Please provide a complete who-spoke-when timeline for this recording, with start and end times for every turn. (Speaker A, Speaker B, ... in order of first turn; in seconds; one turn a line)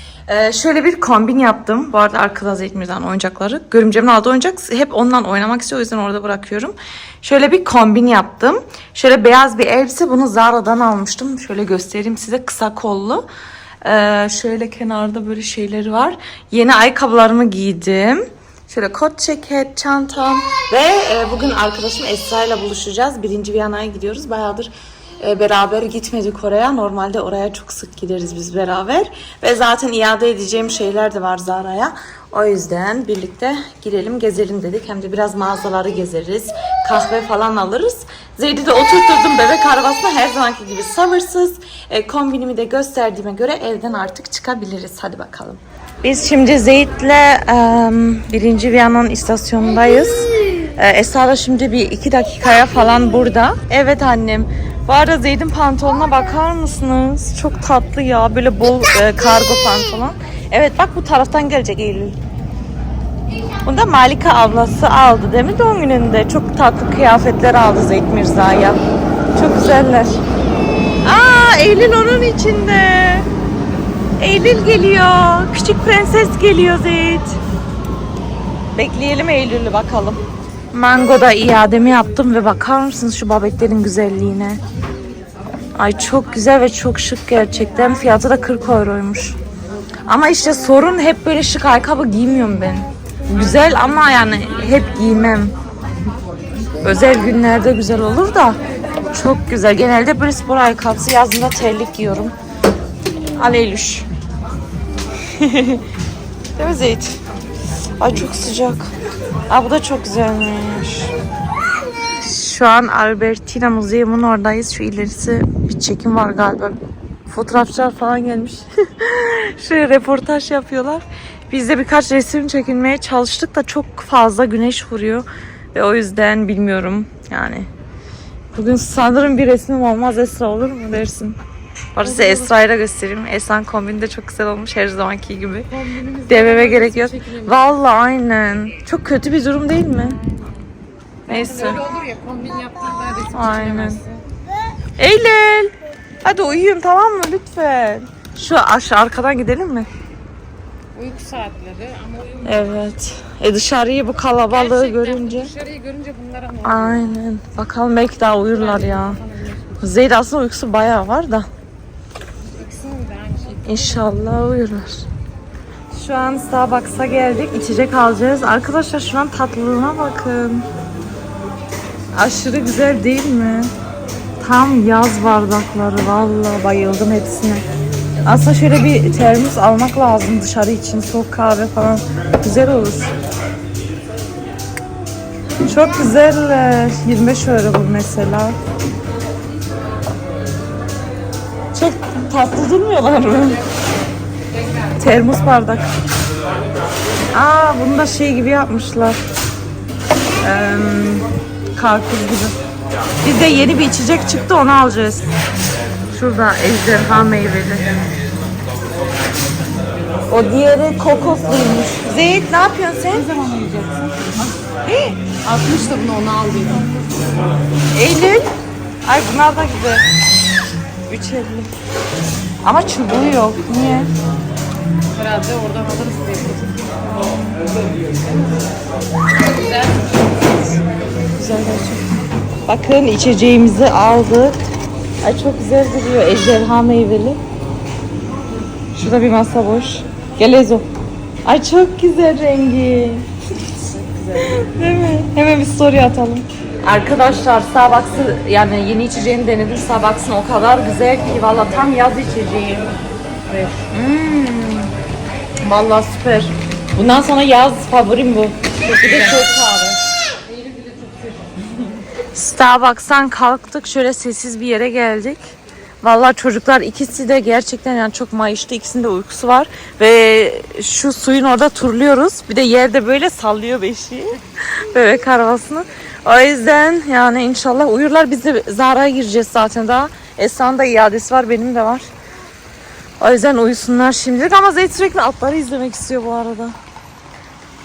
Speaker A: 0.3-13.3
Speaker A: 13.8-62.1
Speaker A: 63.6-68.8
Speaker A: 69.3-70.2
Speaker A: 71.0-73.3
Speaker A: 74.2-77.4
Speaker A: 78.7-80.2
Speaker A: 80.7-84.6
Speaker A: 85.7-89.3
Speaker A: 90.1-95.5
Speaker A: 96.8-98.6
Speaker A: 99.1-102.3
Speaker A: 103.3-104.0
Speaker A: 105.2-105.8
Speaker A: 106.5-107.2
Speaker A: 108.0-108.9
Speaker A: 109.5-111.1
Speaker A: 112.0-127.7
Speaker A: 128.5-131.4
Speaker A: 131.9-135.7
Speaker B: 132.0-132.5
Speaker B: 135.7-137.6
Speaker A: 136.3-140.2
Speaker B: 140.0-140.4
Speaker A: 141.3-141.8
Speaker B: 141.3-144.2
Speaker A: 143.3-144.0
Speaker A: 145.0-149.9
Speaker B: 150.9-152.6
Speaker A: 152.4-155.5
Speaker B: 154.5-157.2
Speaker A: 156.6-159.2
Speaker B: 158.5-159.7
Speaker A: 159.8-161.5
Speaker B: 162.5-164.1
Speaker A: 163.6-165.0
Speaker A: 165.9-170.7
Speaker A: 172.1-173.7
Speaker A: 174.4-177.6
Speaker A: 178.2-183.2
Speaker A: 185.6-188.6
Speaker A: 191.7-193.6
Speaker A: 194.9-195.9
Speaker A: 197.3-199.2
Speaker A: 200.4-202.6
Speaker A: 203.2-205.3
Speaker A: 206.1-207.9
Speaker A: 210.3-213.3
Speaker B: 213.1-214.5
Speaker A: 214.8-215.2
Speaker B: 215.3-217.4
Speaker A: 217.9-218.5
Speaker A: 219.0-220.0
Speaker A: 221.1-221.7
Speaker A: 222.6-224.1
Speaker B: 225.1-226.9
Speaker B: 229.3-230.8
Speaker A: 231.3-234.6
Speaker A: 235.2-237.4
Speaker A: 238.9-240.9
Speaker A: 241.4-243.3
Speaker B: 243.9-244.4
Speaker A: 244.3-252.7
Speaker B: 252.6-252.9
Speaker B: 253.5-253.7
Speaker A: 253.9-254.9
Speaker B: 255.6-256.5
Speaker A: 256.9-260.0
Speaker B: 258.9-259.3
Speaker B: 260.5-261.7
Speaker A: 262.3-282.1
Speaker A: 283.2-286.7